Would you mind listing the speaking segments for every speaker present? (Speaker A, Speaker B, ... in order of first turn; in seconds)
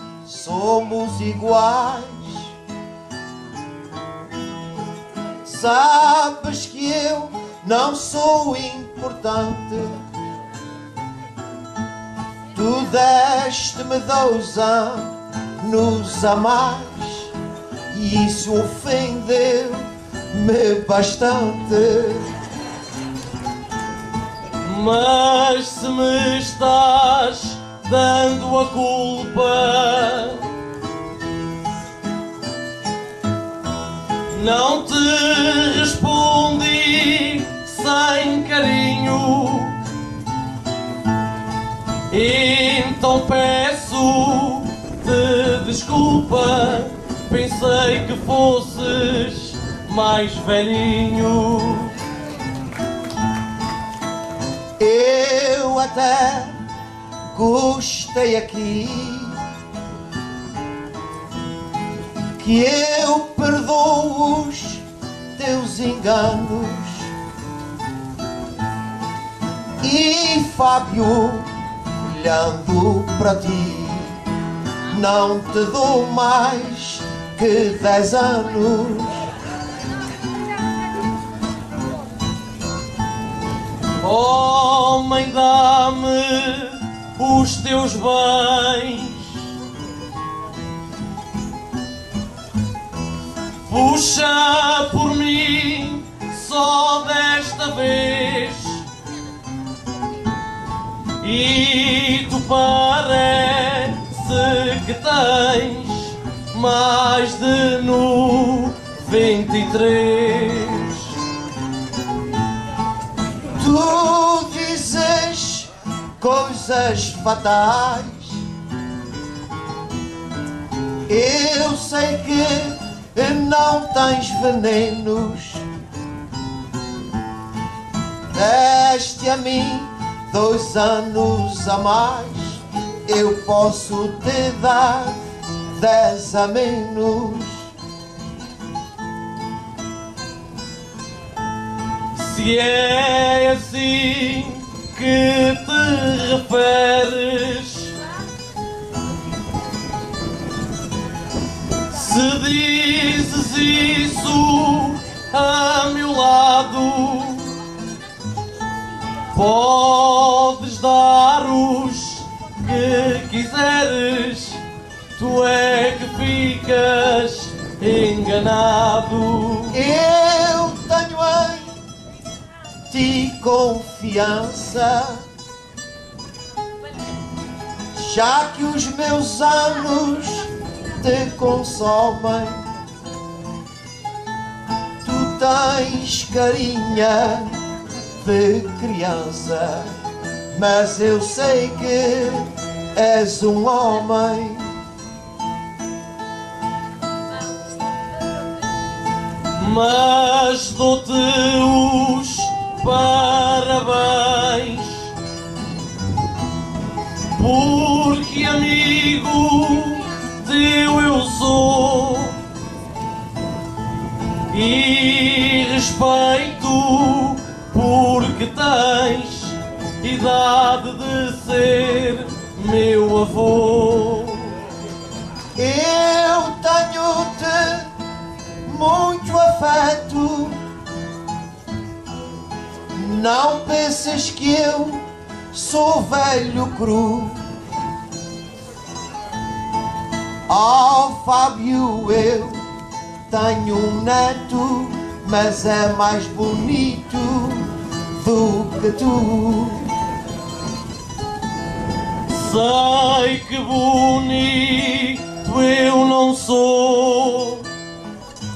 Speaker A: 0.2-2.5, 5.4-10.0, 12.5-17.3, 17.9-22.3, 54.8-56.6, 57.3-59.4, 62.4-67.1, 69.8-74.2, 74.9-79.2, 113.6-118.5, 121.1-125.7, 128.3-135.2, 135.8-137.7, 169.7-171.8, 172.9-175.2, 177.9-182.7, 185.0-187.6, 188.2-189.9, 190.5-194.7, 225.6-227.9, 228.7-230.6, 232.9-237.4, 240.5-242.7, 243.3-249.9
Speaker B: 24.6-30.4, 34.3-39.8, 42.1-51.9, 84.0-89.4, 93.7-98.8, 101.2-111.2, 142.1-147.9, 151.9-157.5, 159.3-164.6, 165.2-169.8, 199.5-205.1, 207.3-212.4, 214.5-224.6, 252.3-257.7